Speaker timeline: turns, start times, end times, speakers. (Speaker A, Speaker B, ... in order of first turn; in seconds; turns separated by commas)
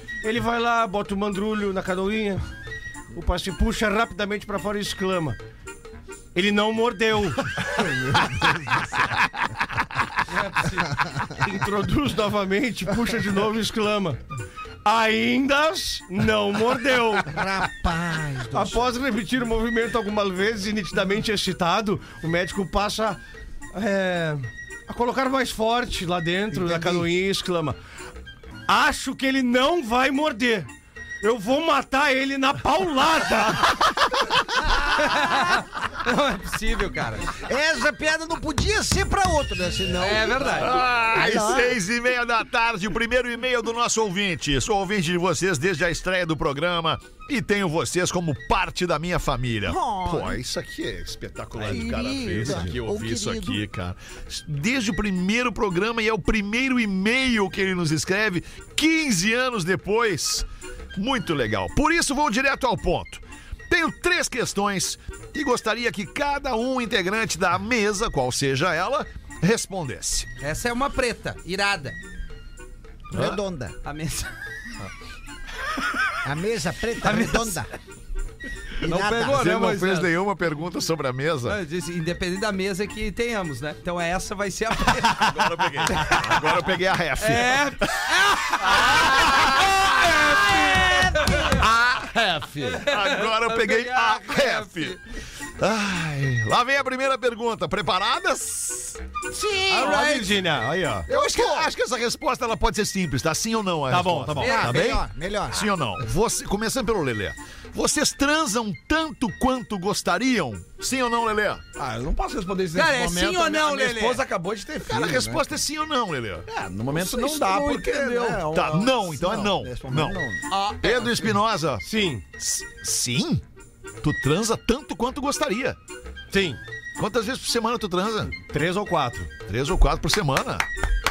Speaker A: 0.2-2.4, Speaker A: 3.1-5.4, Speaker A: 6.3-7.7, Speaker B: 10.3-11.0, Speaker A: 11.3-14.2, Speaker A: 14.8-17.4, Speaker C: 17.2-18.9, Speaker A: 18.5-23.2, Speaker A: 23.7-27.8, Speaker D: 26.6-26.9, Speaker A: 28.7-30.7, Speaker A: 31.2-33.8, Speaker B: 35.0-37.3, Speaker C: 37.4-41.8, Speaker B: 40.0-40.8, Speaker E: 40.6-70.3, Speaker C: 49.6-50.4, Speaker C: 51.6-53.6, Speaker B: 70.4-72.0, Speaker C: 73.1-73.7, Speaker E: 73.1-73.4, Speaker B: 73.8-74.3, Speaker C: 76.2-77.7, Speaker B: 77.0-77.6, Speaker C: 78.8-79.4, Speaker B: 78.8-80.1, Speaker E: 79.2-81.6, Speaker B: 81.5-86.2, Speaker E: 85.1-89.8, Speaker B: 87.2-91.6, Speaker C: 90.6-91.4, Speaker D: 91.6-92.8, Speaker B: 92.6-95.0, Speaker E: 92.9-95.0, Speaker E: 95.6-99.0, Speaker C: 99.3-100.1, Speaker B: 99.7-100.3, Speaker A: 99.7-101.1, Speaker E: 101.1-111.6, Speaker C: 101.1-101.7, Speaker A: 103.9-104.6, Speaker B: 104.4-105.0, Speaker C: 104.4-105.7, Speaker D: 111.8-115.5, Speaker B: 112.7-114.2, Speaker E: 114.9-116.5, Speaker D: 116.5-120.4, Speaker C: 117.0-118.4, Speaker E: 118.5-120.2, Speaker B: 120.5-121.3, Speaker E: 120.8-121.8, Speaker A: 121.8-122.2, Speaker E: 122.4-123.4, Speaker E: 124.0-125.8, Speaker A: 126.3-126.6, Speaker E: 127.0-128.3, Speaker A: 128.3-129.3, Speaker E: 129.5-130.6